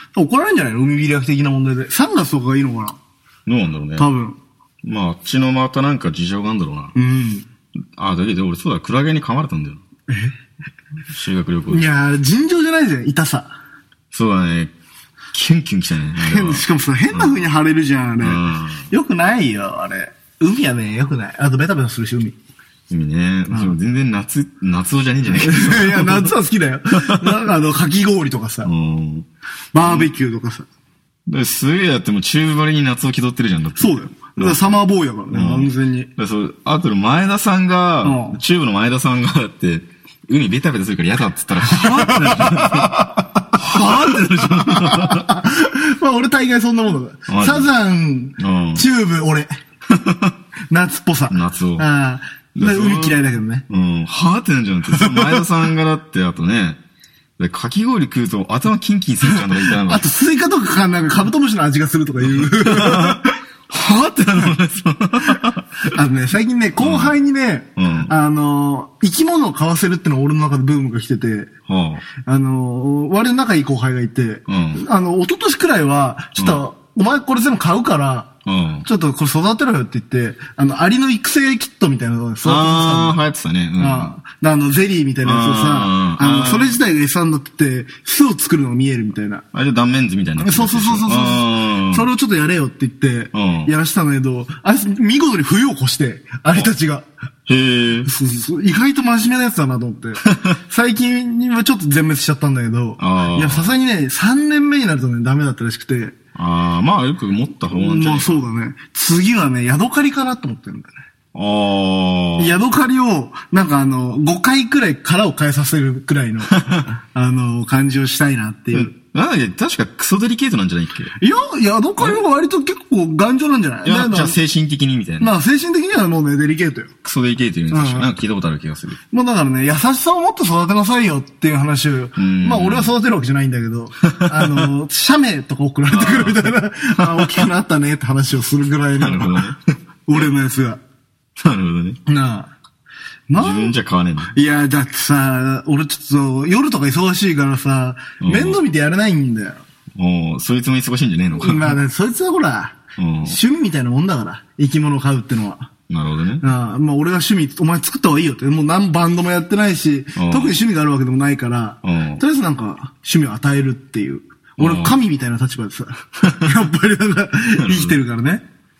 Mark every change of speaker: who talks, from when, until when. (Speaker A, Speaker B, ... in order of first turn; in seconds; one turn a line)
Speaker A: 0.1-3.0
Speaker B: 3.5-4.1
Speaker A: 4.0-4.4
Speaker B: 4.8-6.9
Speaker A: 6.9-7.5
Speaker B: 8.0-9.8
Speaker A: 10.1-10.3
Speaker B: 11.1-11.8
Speaker A: 11.7-13.5
Speaker B: 14.1-14.7
Speaker B: 15.3-17.4
Speaker A: 16.2-22.4
Speaker B: 18.2-18.9
Speaker B: 22.9-26.3
Speaker A: 23.5-23.7
Speaker A: 25.4-28.7
Speaker B: 27.1-27.3
Speaker B: 28.6-29.3
Speaker A: 29.7-30.7
Speaker B: 29.8-30.1
Speaker B: 31.3-34.7
Speaker A: 33.8-36.1
Speaker B: 35.3-45.3
Speaker A: 38.0-38.4
Speaker A: 41.7-49.5
Speaker B: 47.3-47.7
Speaker B: 48.4-48.8
Speaker B: 49.9-50.3
Speaker A: 50.7-53.6
Speaker B: 51.3-51.9
Speaker B: 52.5-56.8
Speaker A: 54.9-55.4
Speaker B: 57.4-60.0
Speaker A: 59.3-64.5
Speaker B: 62.2-63.2
Speaker B: 63.8-65.9
Speaker A: 65.9-71.5
Speaker B: 66.8-67.1
Speaker B: 67.8-68.1
Speaker B: 71.7-72.0
Speaker A: 72.2-78.3
Speaker B: 74.5-74.8
Speaker B: 78.5-78.9
Speaker A: 78.8-83.2
Speaker B: 82.4-84.1
Speaker A: 83.8-89.4
Speaker B: 85.2-86.8
Speaker B: 89.5-92.1
Speaker A: 90.4-97.0
Speaker B: 93.3-93.7
Speaker B: 97.5-98.1
Speaker A: 98.0-106.1
Speaker B: 103.0-103.7
Speaker B: 106.3-108.4
Speaker A: 107.7-110.9
Speaker B: 111.3-112.6
Speaker A: 112.4-118.9
Speaker B: 118.7-121.1
Speaker A: 121.2-124.3
Speaker B: 123.8-125.3
Speaker A: 125.2-126.9
Speaker B: 127.0-129.0
Speaker A: 127.7-128.1
Speaker A: 129.1-139.5
Speaker B: 132.2-132.9
Speaker B: 134.0-134.7
Speaker B: 135.9-137.5
Speaker B: 139.0-139.6
Speaker A: 140.1-140.8
Speaker B: 141.4-142.0
Speaker A: 142.1-142.5
Speaker A: 143.3-143.7
Speaker B: 143.3-144.3
Speaker A: 144.3-149.6
Speaker B: 148.2-148.6
Speaker B: 149.9-151.8
Speaker A: 151.3-155.7
Speaker B: 153.0-153.4
Speaker B: 155.9-156.4
Speaker A: 156.4-168.4
Speaker B: 160.1-160.5
Speaker B: 161.8-162.2
Speaker B: 164.6-164.9
Speaker B: 167.6-168.0